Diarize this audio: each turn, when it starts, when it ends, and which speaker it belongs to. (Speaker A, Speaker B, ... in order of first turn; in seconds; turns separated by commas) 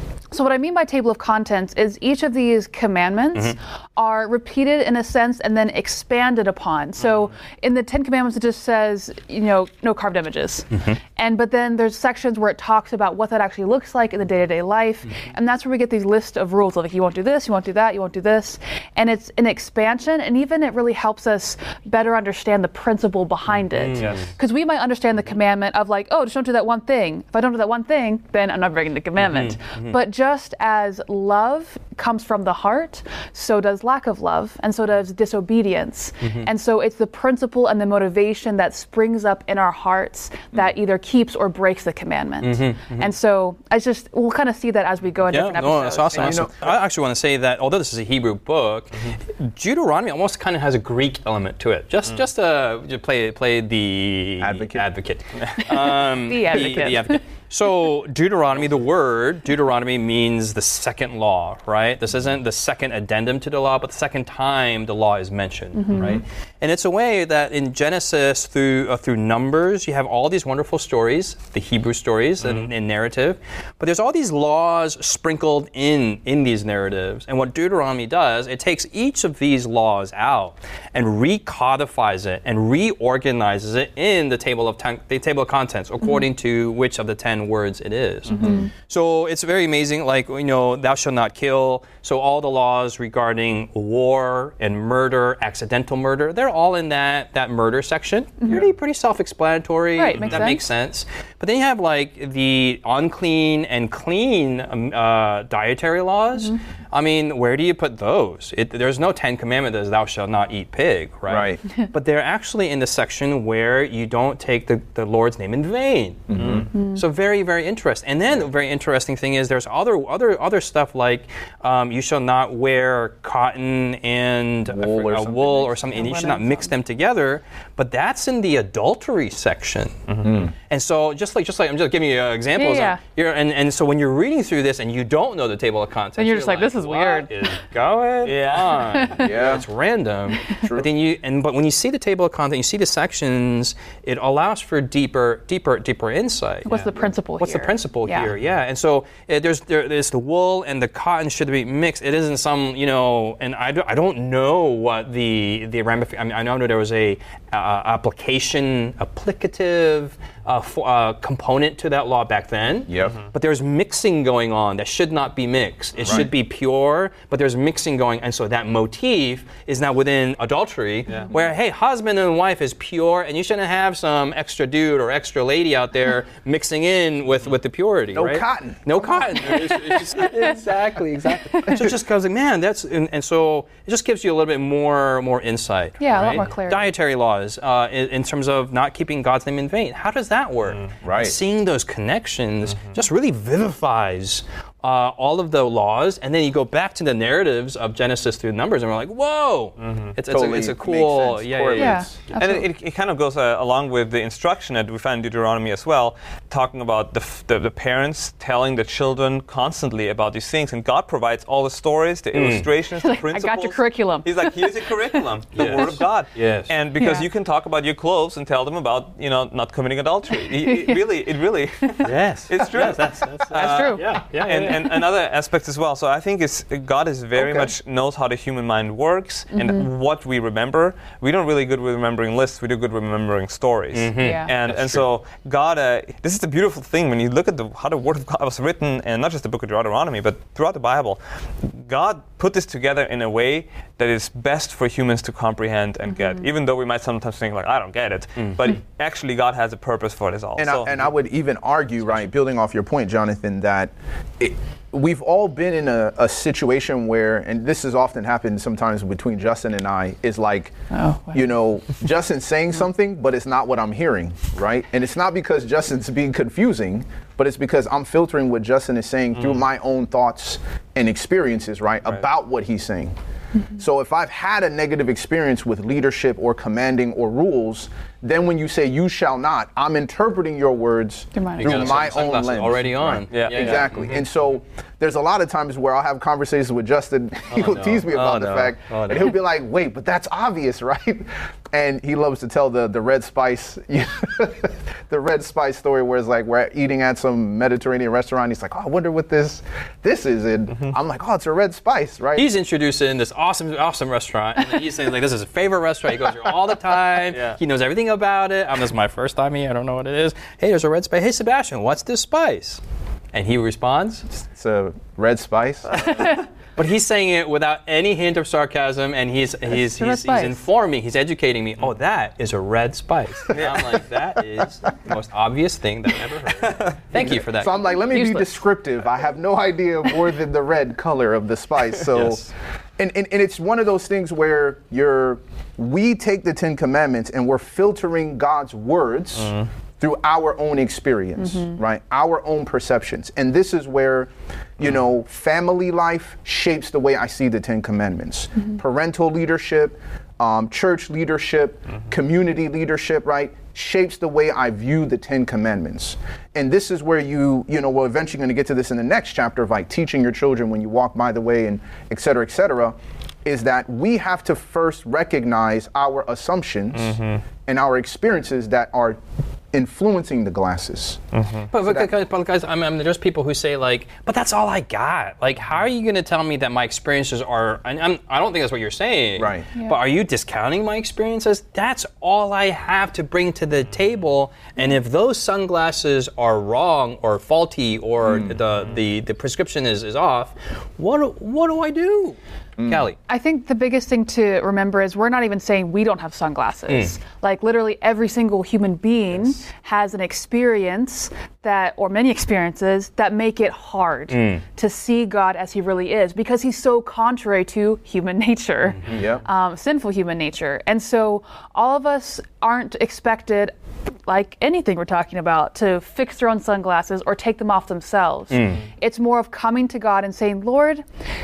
Speaker A: 0.3-46.4, Speaker B: 10.7-11.0, Speaker B: 23.7-24.2, Speaker B: 29.2-29.9, Speaker B: 36.2-36.5, Speaker B: 42.4-43.1, Speaker B: 45.3-202.0, Speaker C: 46.2-46.7, Speaker C: 54.4-54.9, Speaker A: 55.6-57.2, Speaker A: 65.8-66.2, Speaker C: 65.9-66.2, Speaker A: 88.3-88.7, Speaker C: 88.4-88.7, Speaker A: 98.4-98.7, Speaker A: 100.0-100.6, Speaker D: 100.2-100.5, Speaker C: 111.3-111.6, Speaker C: 116.3-116.7, Speaker D: 116.4-116.6, Speaker A: 116.7-117.0, Speaker C: 124.7-125.6, Speaker A: 125.4-126.7, Speaker C: 130.2-130.5, Speaker A: 132.6-133.0, Speaker A: 136.2-137.3, Speaker D: 138.2-139.1, Speaker A: 138.9-139.2, Speaker C: 139.2-139.7, Speaker C: 140.6-140.9, Speaker A: 146.7-148.3, Speaker C: 162.9-163.2, Speaker C: 166.0-166.3, Speaker C: 178.1-179.2, Speaker A: 179.5-180.6, Speaker A: 181.5-181.9, Speaker A: 186.0-186.9, Speaker C: 191.0-191.4, Speaker D: 199.8-200.1, Speaker C: 200.3-202.2, Speaker A: 201.8-202.7, Speaker D: 202.4-251.0, Speaker B: 212.3-212.7, Speaker A: 213.0-216.0, Speaker B: 215.5-216.7, Speaker A: 217.0-217.3, Speaker A: 220.4-221.0, Speaker A: 221.9-222.1, Speaker B: 222.0-225.0, Speaker A: 223.5-224.1, Speaker C: 227.4-227.7, Speaker A: 229.5-229.9, Speaker B: 233.9-235.0, Speaker A: 234.2-234.5, Speaker A: 246.1-246.5, Speaker C: 250.6-260.7, Speaker A: 260.9-261.4, Speaker C: 261.3-273.1, Speaker D: 269.4-269.6, Speaker C: 273.8-302.5, Speaker A: 281.4-281.9, Speaker B: 281.6-284.2, Speaker D: 283.3-283.9, Speaker B: 287.5-289.3, Speaker D: 288.1-288.7, Speaker B: 302.4-312.8, Speaker D: 307.3-307.6, Speaker B: 313.3-314.3, Speaker C: 314.3-316.2, Speaker B: 316.8-327.8, Speaker A: 319.7-320.6, Speaker D: 323.5-323.9, Speaker D: 326.6-326.9, Speaker C: 327.1-332.4, Speaker A: 327.9-328.6, Speaker B: 332.1-332.5, Speaker C: 333.0-369.2, Speaker A: 341.4-341.8, Speaker D: 367.0-367.4, Speaker C: 369.7-371.2, Speaker D: 371.3-371.7, Speaker B: 371.7-393.2, Speaker C: 371.7-372.1, Speaker C: 379.4-379.7, Speaker C: 388.2-388.5, Speaker C: 392.8-393.1, Speaker A: 393.3-413.7, Speaker B: 396.9-397.2, Speaker B: 404.3-404.6, Speaker C: 409.1-409.4, Speaker A: 414.3-421.0, Speaker B: 418.5-418.8